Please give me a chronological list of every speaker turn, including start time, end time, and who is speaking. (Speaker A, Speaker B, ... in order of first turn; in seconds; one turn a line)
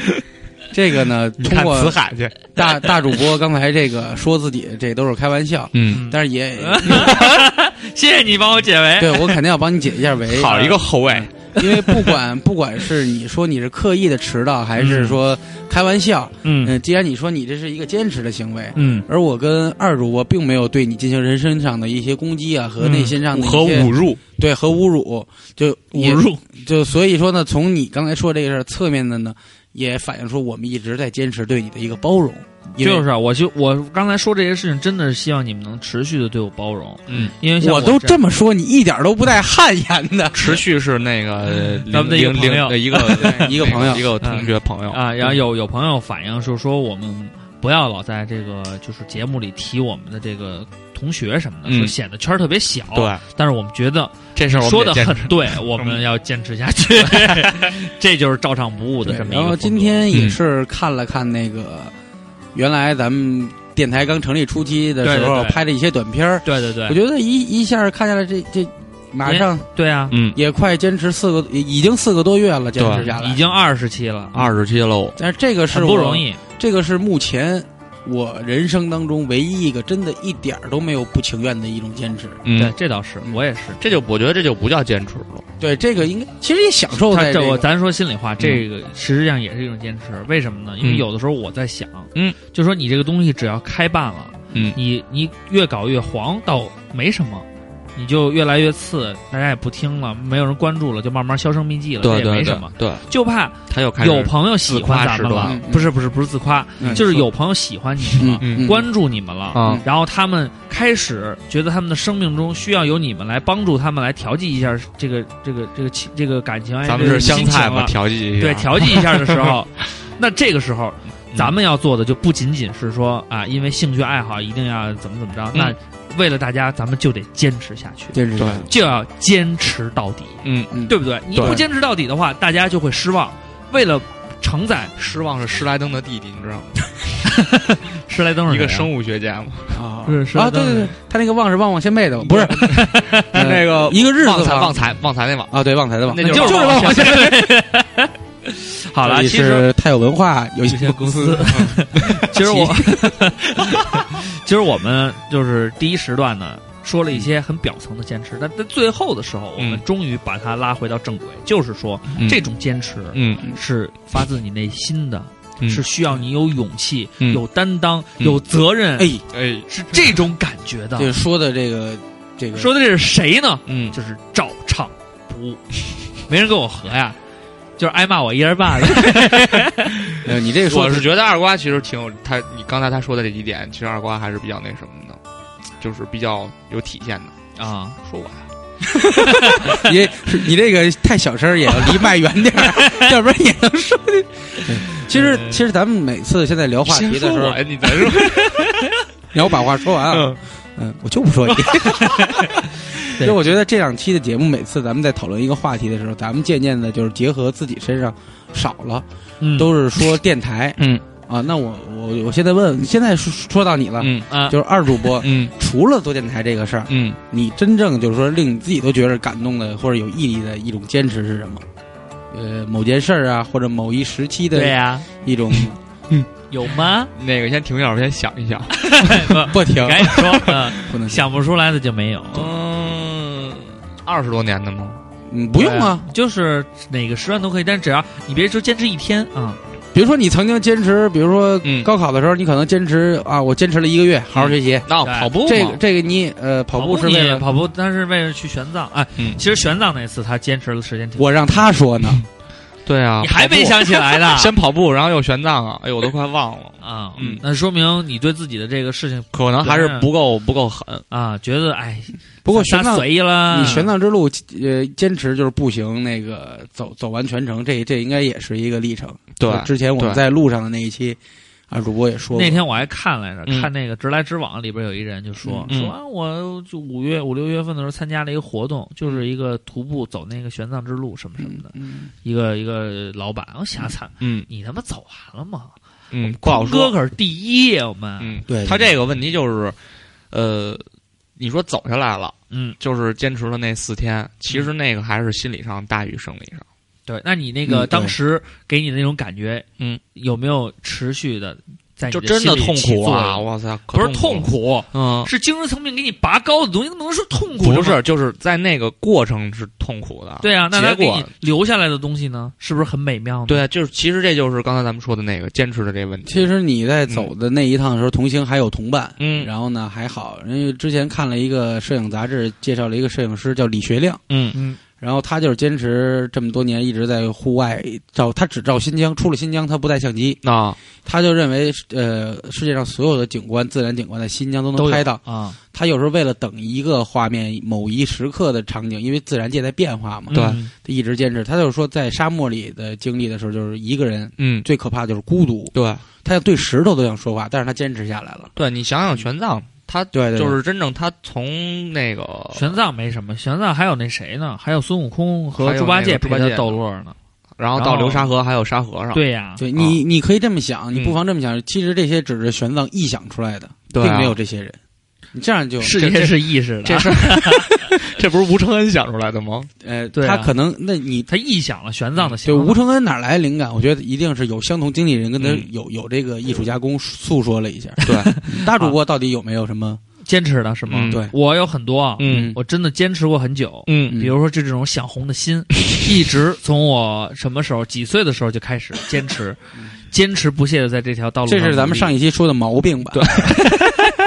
Speaker A: 0.7-2.0
Speaker B: 1.4-2.5
Speaker A: 2.5-7.2
Speaker B: 5.7-6.0
Speaker C: 5.9-9.4
Speaker B: 6.9-7.5
Speaker A: 9.0-33.0
Speaker B: 10.3-11.3
Speaker C: 10.5-10.8
Speaker C: 11.6-12.2
Speaker C: 14.8-15.2
Speaker C: 16.4-16.8
Speaker C: 18.8-19.1
Speaker C: 22.8-23.1
Speaker B: 22.9-24.2
Speaker C: 25.9-26.4
Speaker C: 32.8-38.2
Speaker B: 37.1-37.3
Speaker A: 37.6-40.6
Speaker B: 40.3-45.0
Speaker C: 41.9-43.6
Speaker A: 43.3-44.3
Speaker C: 44.2-60.1
Speaker B: 51.7-51.9
Speaker B: 52.9-53.2
Speaker B: 54.4-56.0
Speaker B: 56.9-57.7
Speaker A: 59.0-61.9
Speaker B: 60.1-60.4
Speaker A: 62.5-69.7
Speaker C: 65.0-65.6
Speaker C: 66.5-67.0
Speaker C: 69.2-70.2
Speaker B: 70.1-70.4
Speaker A: 70.3-73.4
Speaker B: 72.8-73.1
Speaker C: 72.9-74.5
Speaker B: 74.3-75.2
Speaker A: 75.2-82.4
Speaker C: 75.7-76.4
Speaker B: 82.5-82.8
Speaker C: 82.5-83.8
Speaker B: 83.8-85.5
Speaker A: 85.6-87.7
Speaker C: 87.1-134.9
Speaker B: 94.5-94.8
Speaker B: 102.0-103.1
Speaker B: 103.7-105.6
Speaker A: 105.4-105.9
Speaker B: 106.8-107.3
Speaker B: 108.2-108.8
Speaker A: 108.2-108.9
Speaker B: 109.5-109.8
Speaker A: 109.6-109.8
Speaker B: 116.9-119.6
Speaker A: 128.1-128.7
Speaker B: 128.4-128.7
Speaker B: 130.4-130.7
Speaker A: 130.7-131.6
Speaker B: 131.3-131.6
Speaker B: 135.0-137.2
Speaker C: 137.2-138.9
Speaker B: 138.5-139.8
Speaker A: 139.7-144.8
Speaker C: 140.1-140.9
Speaker B: 142.2-147.3
Speaker C: 142.7-143.3
Speaker A: 145.5-147.3
Speaker C: 146.2-149.7
Speaker A: 149.0-151.7
Speaker C: 150.7-169.1
Speaker A: 152.4-152.8
Speaker B: 162.2-162.4
Speaker B: 163.1-163.5
Speaker A: 169.0-169.2
Speaker B: 169.3-169.7
Speaker C: 169.7-171.1
Speaker A: 171.0-172.7
Speaker C: 172.6-175.6
Speaker B: 173.7-173.9
Speaker C: 176.3-177.2
Speaker C: 177.8-180.1
Speaker A: 180.2-181.1
Speaker B: 180.7-185.2
Speaker B: 185.8-187.3
Speaker C: 187.6-188.0
Speaker B: 188.0-188.4
Speaker A: 188.8-197.6
Speaker C: 189.2-189.8
Speaker C: 195.0-195.6
Speaker B: 196.9-198.9
Speaker C: 198.2-198.9
Speaker A: 199.3-202.3
Speaker B: 200.1-200.4
Speaker C: 201.8-202.5
Speaker A: 203.0-221.6
Speaker C: 209.4-209.7
Speaker B: 214.0-214.3
Speaker C: 214.3-214.6
Speaker B: 215.2-215.5
Speaker B: 216.9-217.2
Speaker A: 222.3-225.8
Speaker C: 224.5-225.1
Speaker C: 226.5-227.1
Speaker B: 227.1-229.3
Speaker C: 228.8-232.5
Speaker A: 229.4-231.3
Speaker B: 230.2-230.6
Speaker B: 232.3-235.0
Speaker A: 235.3-236.1
Speaker C: 235.6-239.6
Speaker A: 239.9-244.9
Speaker B: 241.6-241.9
Speaker B: 244.3-245.8
Speaker C: 245.0-245.3
Speaker A: 245.4-247.5
Speaker C: 246.7-251.6
Speaker A: 251.2-252.2
Speaker B: 252.9-257.4
Speaker C: 253.2-254.5
Speaker C: 256.8-260.1
Speaker B: 259.3-261.0
Speaker C: 261.1-263.9
Speaker A: 262.4-271.2
Speaker B: 269.4-270.2
Speaker A: 271.7-272.6
Speaker C: 272.3-285.7
Speaker A: 275.4-275.7
Speaker A: 281.4-282.1
Speaker B: 284.2-284.5
Speaker B: 286.1-286.9
Speaker C: 286.3-288.4
Speaker B: 288.2-289.8
Speaker A: 288.5-288.9
Speaker B: 290.3-290.8
Speaker B: 291.4-296.6
Speaker C: 292.5-292.8
Speaker C: 297.1-308.0
Speaker A: 297.7-298.1
Speaker B: 302.1-305.3
Speaker B: 307.6-311.3
Speaker C: 310.4-313.6
Speaker B: 313.5-316.5
Speaker A: 316.3-324.2
Speaker B: 319.2-319.5
Speaker B: 324.3-324.6
Speaker C: 324.5-324.8
Speaker A: 325.0-330.4
Speaker B: 330.4-330.8
Speaker A: 331.0-335.2
Speaker C: 334.8-335.6
Speaker A: 335.7-348.5
Speaker C: 340.3-340.7
Speaker B: 340.3-340.6
Speaker B: 344.4-344.7
Speaker B: 345.7-346.1
Speaker B: 348.6-352.8
Speaker A: 350.1-350.6
Speaker C: 352.5-357.1
Speaker B: 355.6-356.8
Speaker B: 357.6-359.2
Speaker C: 357.8-358.3
Speaker C: 359.1-359.6
Speaker A: 359.6-364.8
Speaker B: 359.7-360.0
Speaker B: 360.9-361.2
Speaker B: 363.9-364.4
Speaker A: 365.3-366.1
Speaker C: 365.8-367.8
Speaker B: 366.0-369.7
Speaker A: 369.8-371.3
Speaker C: 370.1-370.5
Speaker C: 371.3-372.8
Speaker A: 372.4-380.0
Speaker B: 375.4-375.7
Speaker B: 378.1-378.3
Speaker C: 378.3-378.9
Speaker C: 380.2-389.6
Speaker B: 380.9-381.2
Speaker B: 382.2-382.5
Speaker A: 382.2-382.6
Speaker B: 383.9-384.2
Speaker A: 384.1-384.3
Speaker C: 390.1-392.1
Speaker A: 391.5-393.5
Speaker B: 393.1-393.7